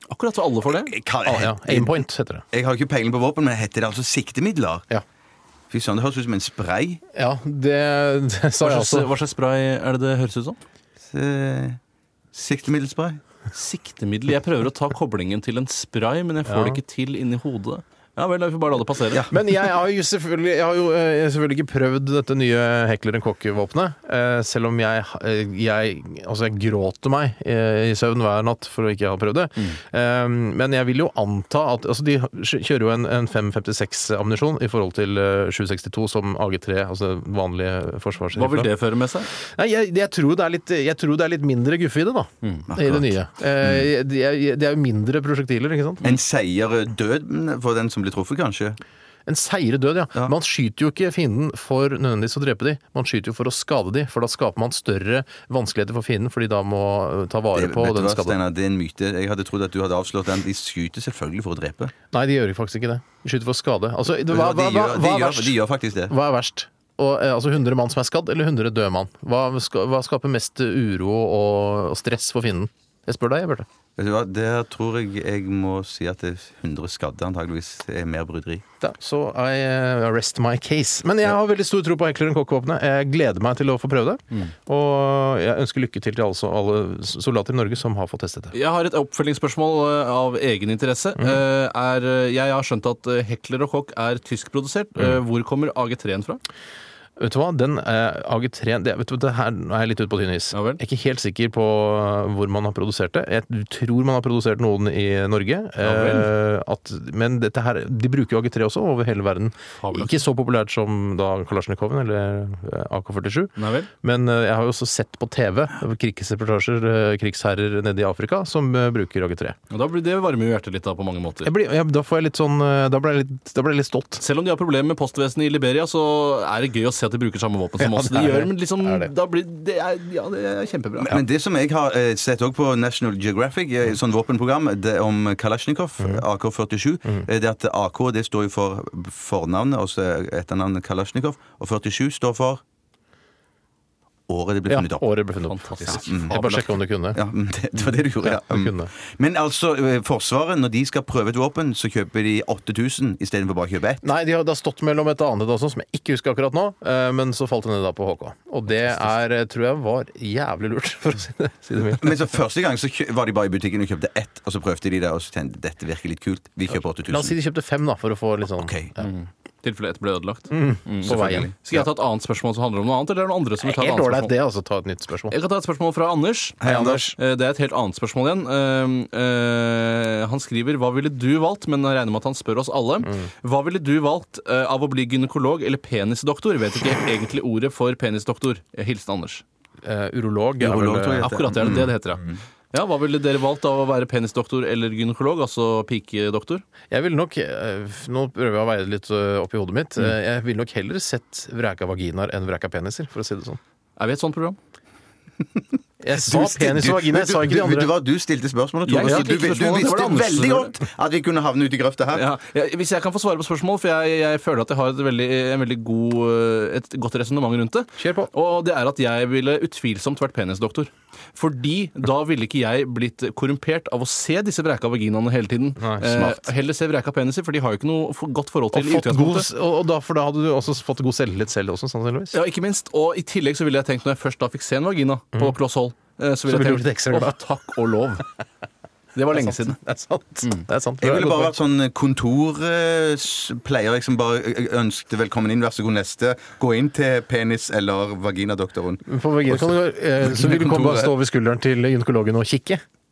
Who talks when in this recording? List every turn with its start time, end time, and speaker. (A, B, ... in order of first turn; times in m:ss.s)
0:00.1-0:00.9 A
0:00.8-0:04.9 B
0:01.2-0:02.4 C
0:05.7-0:07.0 B
0:07.1-0:09.1 C
0:08.6-0:10.6 A
0:11.1-0:11.8 B
0:12.3-0:13.2 B
0:13.5-0:19.2 A
0:16.4-0:16.8 C
0:19.3-0:38.7 C
0:38.3-0:39.3 A
0:39.4-0:46.0 C
0:42.7-0:43.8 B
0:46.0-0:48.8 B
0:49.2-0:58.4 C
0:57.5-1:01.9 B
1:02.1-1:13.6 C
1:04.3-1:06.1 B
1:14.0-1:18.6 B
1:18.8-1:28.5 C
1:28.5-1:36.4 A
1:37.2-1:59.6 C
1:40.5-1:40.8 A
1:45.8-1:46.3 A
1:49.8-1:50.2 A
1:53.6-1:53.9 A
1:59.7-2:01.5 A
2:01.4-2:04.2 C
2:04.2-2:11.2 A
2:07.8-2:09.1 C
2:11.0-2:22.6 B
2:24.3-2:25.1 B
2:24.7-2:27.2 C
2:25.5-2:26.6 A
2:25.9-2:34.0 B
2:28.2-2:28.9 C
2:34.0-2:42.1 C
2:41.9-2:47.4 B
2:47.1-2:49.0 C
2:48.6-2:48.9 B
2:49.0-2:54.3 A
2:50.5-2:51.5 C
2:51.0-2:51.9 B
2:53.6-2:55.4 C
2:55.3-3:09.4 A
2:56.6-2:57.0 B
2:56.6-2:57.2 C
3:09.8-3:11.3 C
3:10.6-3:11.9 B
3:11.2-3:16.6 A
3:16.9-3:23.6 C
3:24.0-3:24.6 A
3:26.0-3:27.9 C
3:26.1-3:32.2 B
3:28.9-3:30.7 A
3:29.0-3:29.6 C
3:32.1-3:49.5 A
3:38.0-3:38.3 C
3:45.8-3:46.5 C
3:48.7-3:52.4 C
3:52.3-3:58.2 A
3:56.5-3:57.4 C
3:59.1-3:59.8 A
3:59.3-4:01.6 C
4:01.0-4:11.1 B
4:09.1-4:12.8 C